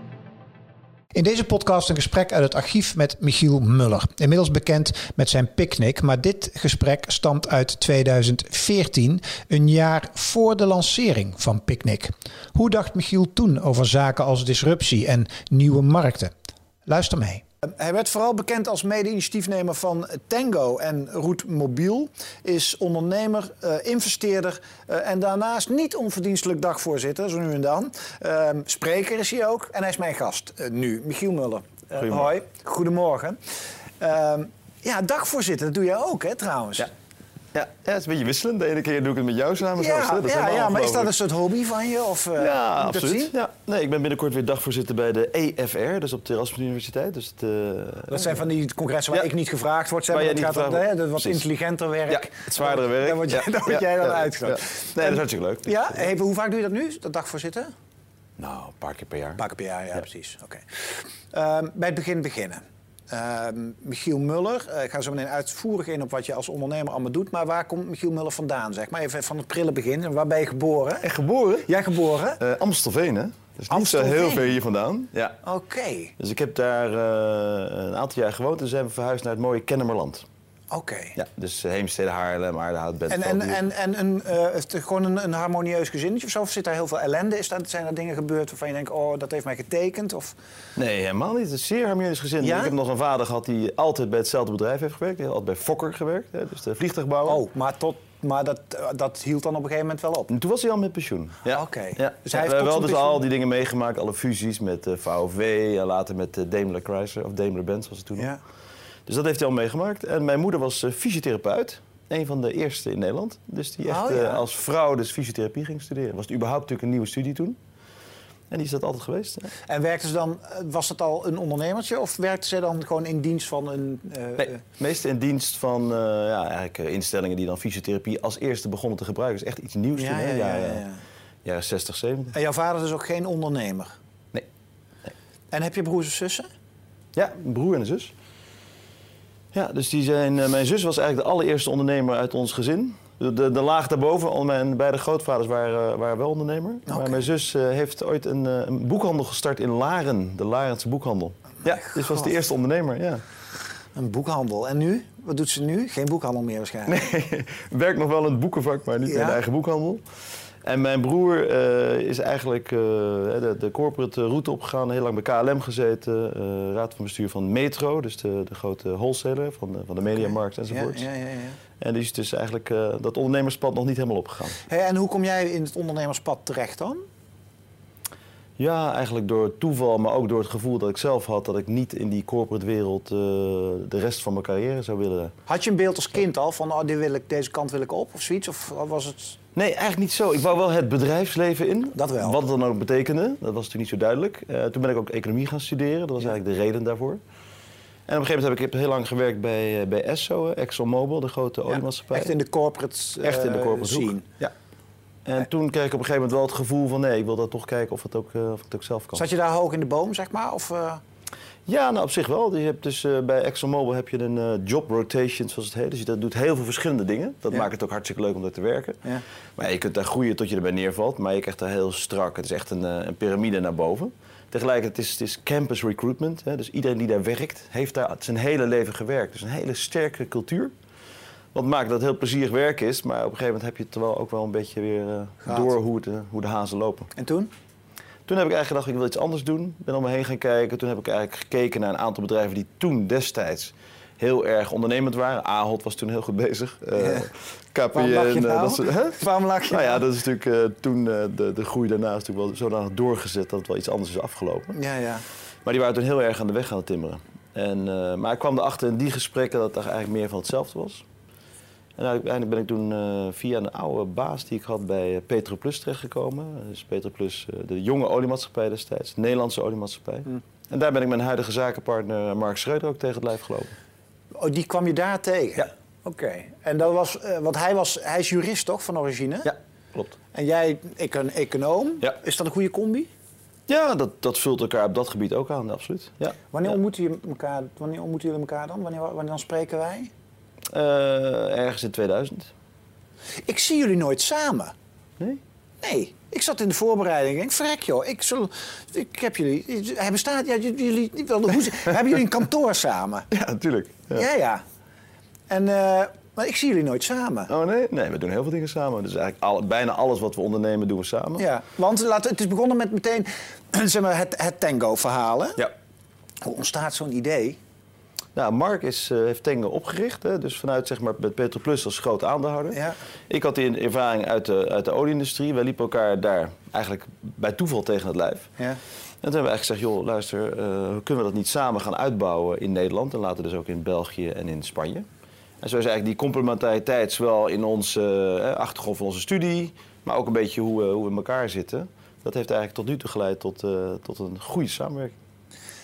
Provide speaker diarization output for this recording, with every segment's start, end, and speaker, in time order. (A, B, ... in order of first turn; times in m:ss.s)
0:01.1-0:16.3 A
0:16.9-0:33.4 A
0:32.0-0:32.3 B
0:34.0-0:36.9 A
0:37.5-0:41.1 B
0:39.8-0:43.3 A
0:42.4-0:48.4 B
0:48.1-0:57.7 A
0:50.1-0:51.4 B
0:52.1-0:56.1 B
0:58.4-0:59.4 B
0:59.4-1:11.1 A
1:11.0-1:11.7 B
1:11.7-1:12.4 A
1:12.4-1:15.4 B
1:13.7-1:14.6 A
1:15.4-1:16.1 A
1:16.2-1:20.3 B
1:20.7-1:21.2 A
1:21.2-1:23.6 B
1:23.1-1:30.4 A
1:30.8-1:37.4 B
1:32.4-1:32.7 A
1:37.3-1:40.3 A
1:40.3-1:48.3 B
1:41.5-1:43.2 A
1:49.1-1:57.6 B
1:53.9-1:54.4 A
1:58.5-1:59.5 B
1:59.7-2:04.6 A
2:04.4-2:10.8 B
2:10.0-2:11.0 A
2:11.4-2:12.4 B
2:12.3-2:14.0 A
2:15.5-2:16.5 A
2:17.1-2:18.1 B
2:19.5-2:33.2 B
2:26.9-2:27.2 A
2:31.8-2:32.3 A
2:34.0-2:37.0 A
2:36.9-2:40.0 B
2:39.1-2:39.4 A
2:40.6-2:51.1 B
2:50.7-2:51.6 A
2:51.8-2:54.6 B
2:54.7-2:57.0 A
2:58.6-3:05.4 B
3:05.5-3:09.4 A
3:09.6-3:17.2 B
3:12.0-3:12.4 A
3:18.1-3:22.3 B
3:21.7-3:24.3 A
3:23.2-3:24.5 B
3:25.2-3:29.2 B
3:29.2-3:31.0 A
3:31.7-3:39.0 B
3:39.6-3:50.7 B
3:51.5-3:57.1 B
3:55.4-3:55.7 A
3:57.2-3:57.5 A
3:58.3-4:14.8 B
4:07.0-4:07.3 A
4:07.9-4:10.0 A
4:14.7-4:15.2 A
4:15.6-4:21.0 B
4:22.0-4:33.7 B
4:34.4-4:39.5 A
4:39.4-4:40.2 B
4:40.3-4:43.1 A
4:43.7-4:46.4 B
4:46.5-4:50.1 A
4:50.7-4:52.5 B
4:53.5-4:54.7 A
4:55.8-5:03.3 A
5:03.3-5:04.3 B
5:04.1-5:04.6 A
5:05.5-5:07.5 A
5:07.5-5:11.4 B
5:11.4-5:15.6 A
5:16.4-5:17.6 A
5:18.4-5:28.5 B
5:29.2-5:35.1 B
5:35.6-5:45.2 B